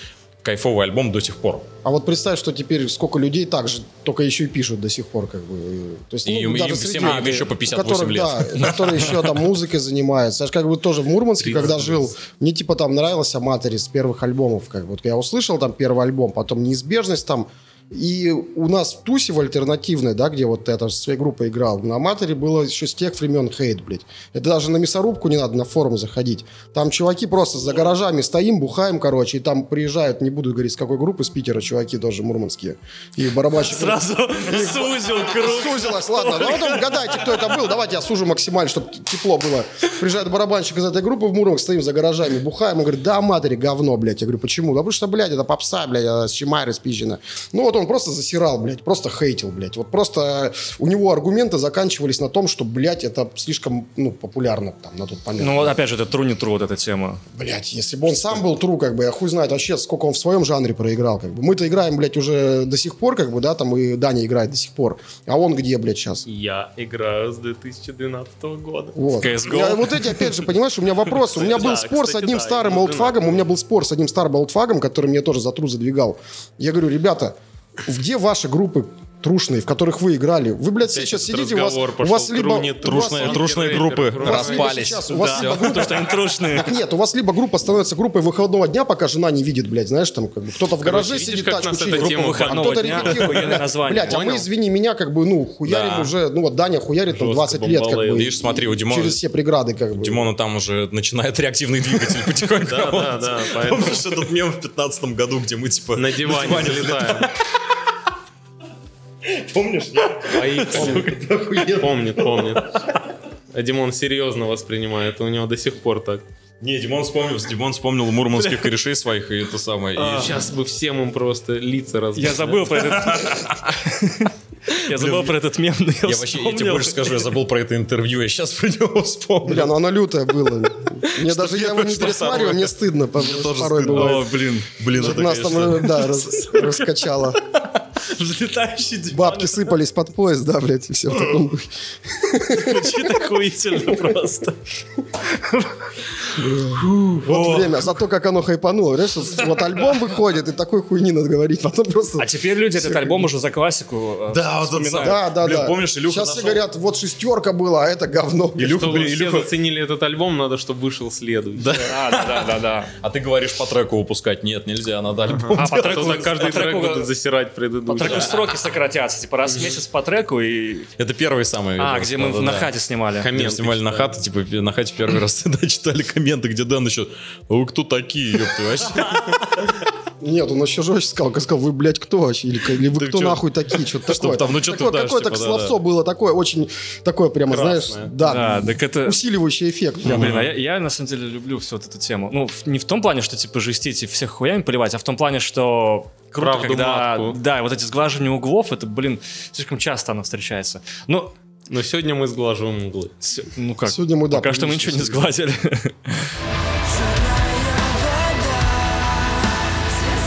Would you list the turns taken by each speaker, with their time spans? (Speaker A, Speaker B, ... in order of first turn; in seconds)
Speaker A: 0.4-1.7, 6.2-9.3, 82.8-86.1, 95.7-96.1, 98.1-99.2, 100.0-107.5, 109.2-113.0, 116.6-120.5, 122.9-123.8, 124.9-125.4, 126.0-129.7, 131.2-136.2, 154.3-156.6, 158.6-159.5, 161.6-166.5, 171.0-172.7, 173.3-179.8, 182.9-183.4, 184.0-185.8, 190.0-190.5
Speaker B: 1.8-55.8, 57.3-66.3, 69.0-100.3, 129.4-134.3, 134.9-137.4, 139.1-143.3, 143.8-144.1, 146.4-153.3, 155.0-158.9, 180.2-190.4, 203.9-205.3
Speaker C: 11.4-12.1, 66.3-69.0, 71.2-73.4, 80.8-84.9, 90.8-94.5, 97.1-98.3, 102.6-104.1, 106.0-107.3, 110.3-112.7, 113.5-116.2, 120.0-122.9, 158.6-161.8, 165.3-168.4, 173.2-174.2, 187.5-188.1, 196.4-197.4, 201.7-203.2
Speaker D: 33.6-37.5, 55.4-57.2, 69.2-70.4, 85.1-86.8, 91.9-94.3, 118.4-118.7, 122.2-127.3, 133.9-134.7, 136.3-139.7, 142.4-144.6, 145.2-147.9, 152.2-155.2, 161.7-162.9, 165.6-167.1, 167.9-170.9, 171.8-173.3, 188.2-189.2, 190.0-201.3, 203.2-206.3